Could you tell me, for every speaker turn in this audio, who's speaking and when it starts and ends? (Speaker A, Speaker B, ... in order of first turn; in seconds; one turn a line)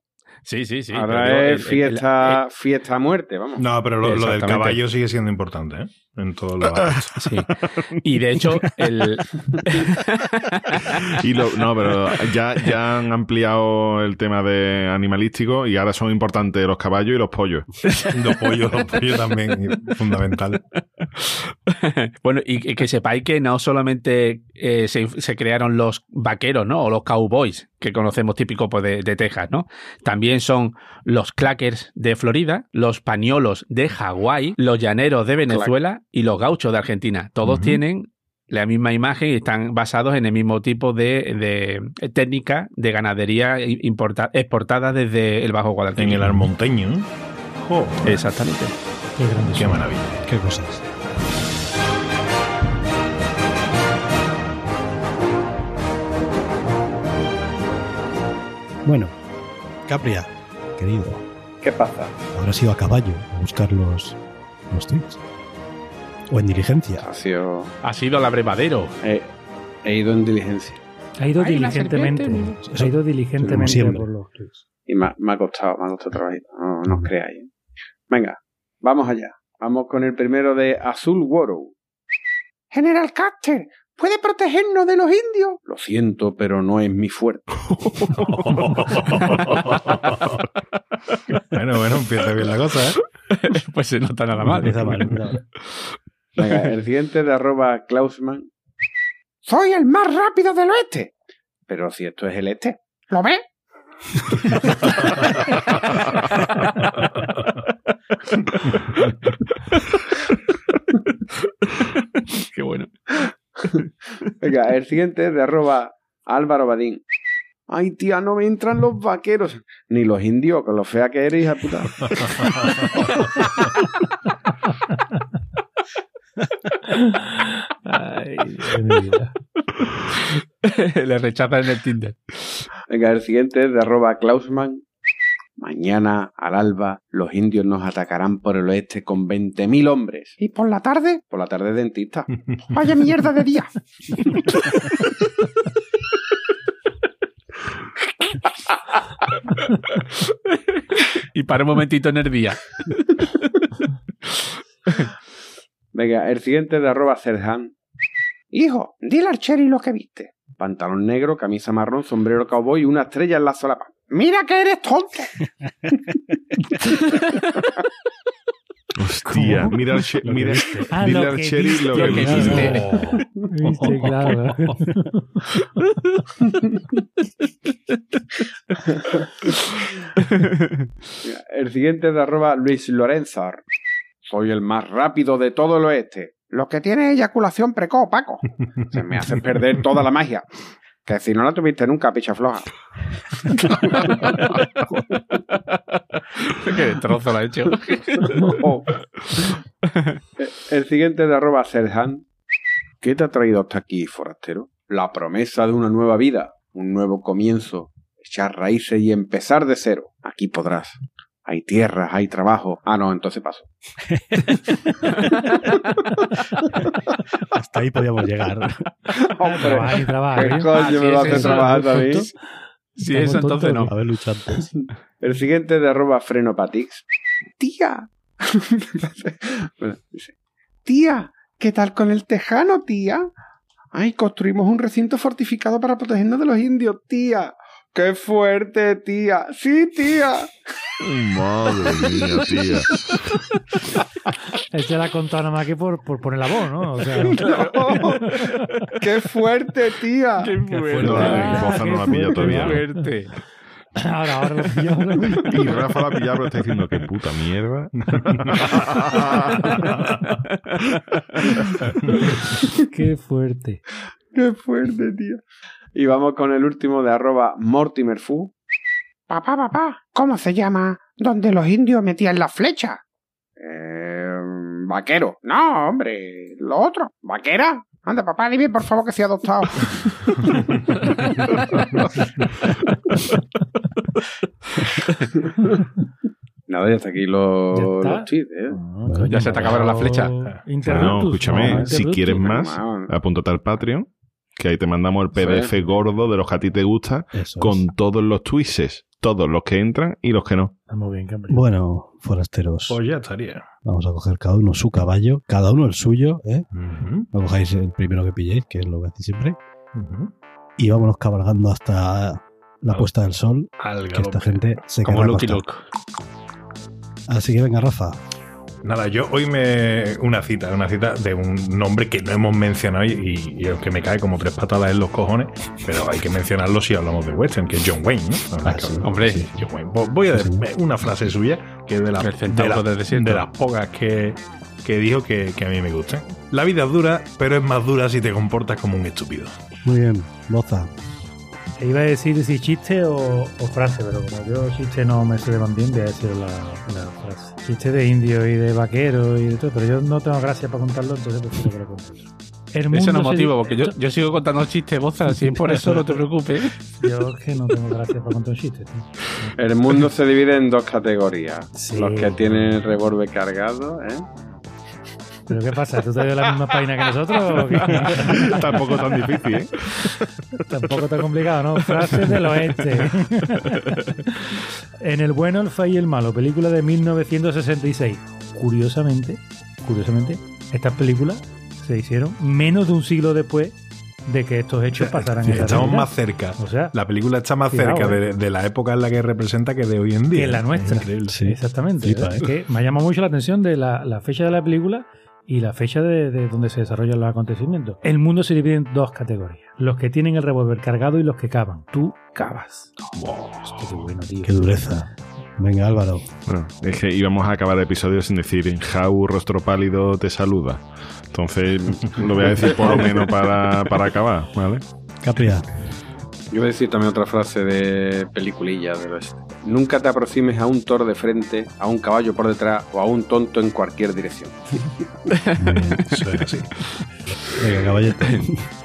Speaker A: 0.5-2.4
Speaker B: 0.9-3.6
Speaker C: 3.6-7.2
Speaker A: 4.0-4.8
Speaker A: 7.2-11.2
Speaker D: 7.5-7.8
Speaker D: 11.0-17.7
Speaker A: 17.9-18.3
Speaker C: 18.1-20.6
Speaker A: 21.2-46.4
Speaker B: 35.5-35.7
Speaker C: 37.4-37.8
Speaker C: 46.0-48.2
Speaker A: 48.0-48.7
Speaker E: 49.1-49.8
Speaker C: 49.5-50.2
Speaker F: 50.2-50.8
Speaker F: 58.8-59.1
Speaker F: 59.8-61.2
Speaker B: 61.6-62.1
Speaker F: 62.3-64.2
Speaker F: 64.7-65.2
Speaker F: 66.3-67.1
Speaker B: 67.0-67.7
Speaker A: 67.8-68.9
Speaker B: 69.0-69.3
Speaker B: 69.8-70.8
Speaker E: 71.2-74.6
Speaker A: 71.4-72.6
Speaker F: 72.3-74.1
Speaker B: 74.9-77.5
Speaker F: 76.8-77.1
Speaker B: 78.1-81.7
Speaker B: 82.7-87.8
Speaker A: 88.1-90.4
Speaker C: 88.1-90.4
Speaker A: 91.1-91.4
Speaker C: 91.5-93.0
Speaker A: 93.3-95.3
Speaker F: 94.4-95.4
Speaker B: 96.3-98.5
Speaker B: 99.4-101.1
Speaker B: 101.7-103.4
Speaker B: 104.9-105.2
Speaker A: 106.4-106.8
Speaker A: 109.7-110.1
Speaker A: 111.7-113.7
Speaker B: 114.4-117.0
Speaker B: 117.7-123.2
Speaker E: 126.9-129.3
Speaker A: 129.7-132.7
Speaker B: 132.9-134.8
Speaker B: 135.6-144.8
Speaker A: 149.9-153.7
Speaker A: 154.4-155.0
Speaker B: 155.9-157.7
Speaker B: 158.5-165.4
Speaker B: 166.8-167.2
Speaker D: 169.0-172.8
Speaker E: 169.3-175.4
Speaker F: 170.3-170.8
Speaker A: 171.9-173.2
Speaker C: 172.2-173.2
Speaker C: 173.8-174.3
Speaker B: 178.8-179.9
Speaker A: 180.2-180.9
Speaker B: 181.2-183.6
Speaker B: 184.2-190.5
Speaker B: 191.0-192.8
Speaker B: 193.5-194.5
Speaker A: 195.5-198.6
Speaker B: 198.3-198.9
Speaker A: 199.9-200.2
Speaker B: 200.4-202.2
Speaker B: 203.0-213.7
Speaker F: 214.1-214.6
Speaker F: 217.5-218.9
Speaker B: 219.2-222.2
Speaker E: 219.4-222.3
Speaker A: 220.6-222.2
Speaker E: 222.9-223.9
Speaker A: 223.0-223.9
Speaker F: 223.2-224.7
Speaker B: 224.6-227.0
Speaker B: 227.6-230.3
Speaker B: 230.8-233.3
Speaker B: 233.9-240.6
Speaker D: 241.0-243.5
Speaker B: 241.8-242.2
Speaker E: 244.7-247.4
Speaker B: 247.2-248.4
Speaker A: 247.4-249.0
Speaker E: 248.1-248.6
Speaker B: 249.0-250.6
Speaker A: 250.4-253.3
Speaker E: 250.7-253.1
Speaker D: 251.0-252.8
Speaker B: 251.1-251.5
Speaker E: 253.9-255.9
Speaker D: 255.2-259.9
Speaker C: 258.1-258.7
Speaker E: 262.9-263.8
Speaker B: 264.3-265.4
Speaker B: 265.9-268.5
Speaker B: 269.3-273.0
Speaker B: 273.6-280.2
Speaker B: 286.7-288.8
Speaker E: 287.7-292.4
Speaker F: 289.0-289.4
Speaker A: 289.3-290.3
Speaker C: 290.4-291.3
Speaker D: 290.8-300.7
Speaker B: 291.5-293.1
Speaker B: 295.3-295.7
Speaker F: 297.3-297.9
Speaker E: 300.9-301.6
Speaker F: 301.5-303.0
Speaker C: 302.9-303.6
Speaker F: 303.8-306.7
Speaker C: 306.7-307.3
Speaker F: 307.3-309.6
Speaker C: 309.9-310.3
Speaker F: 310.8-315.6
Speaker C: 313.8-314.8
Speaker A: 315.0-315.8
Speaker F: 317.3-318.2
Speaker C: 318.8-339.5
Speaker F: 328.6-329.6
Speaker A: 329.0-329.5
Speaker F: 330.3-330.6
Speaker A: 332.2-333.4
Speaker F: 339.8-340.9
Speaker E: 341.8-353.9
Speaker A: 352.9-356.8
Speaker E: 357.0-359.5
Speaker B: 359.6-364.4
Speaker E: 361.7-362.8
Speaker E: 365.5-368.9
Speaker A: 367.7-368.6
Speaker D: 368.1-370.3
Speaker E: 370.7-386.9
Speaker C: 385.0-391.4
Speaker F: 385.5-385.8
Speaker E: 387.7-388.2
Speaker E: 390.3-403.1
Speaker F: 391.3-392.3
Speaker C: 392.1-392.5
Speaker C: 403.1-404.0
Speaker E: 403.7-404.9
Speaker F: 404.4-406.2
Speaker D: 406.4-414.8
Speaker F: 415.2-415.6
Speaker B: 416.5-425.0
Speaker A: 425.3-426.0
Speaker F: 425.6-426.4
Speaker C: 426.1-426.7
Speaker F: 427.4-428.7
Speaker A: 428.2-428.5